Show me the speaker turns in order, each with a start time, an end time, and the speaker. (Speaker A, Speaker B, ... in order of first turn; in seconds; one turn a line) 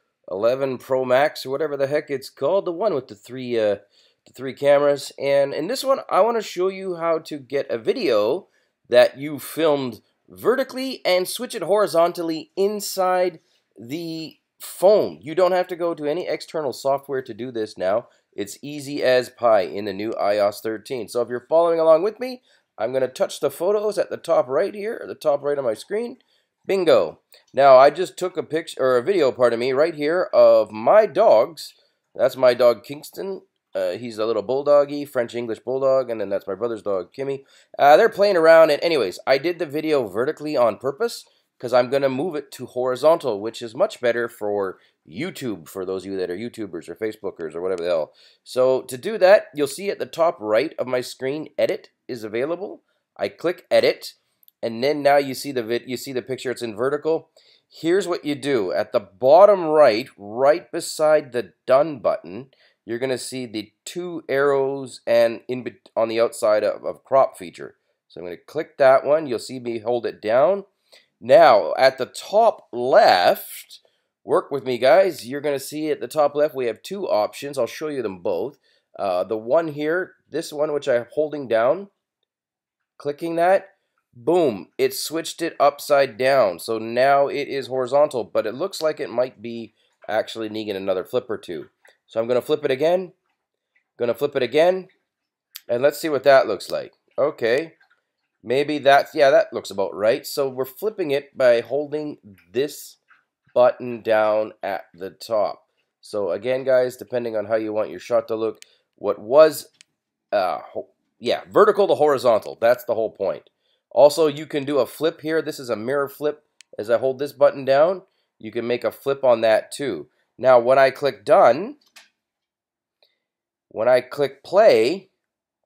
Speaker A: 0.3-70.7
Speaker A: 71.2-81.9
Speaker A: 83.0-93.1
Speaker A: 94.0-94.9
Speaker A: 95.7-97.8
Speaker A: 98.4-103.0
Speaker A: 103.5-109.7
Speaker A: 110.3-121.8
Speaker A: 123.7-125.1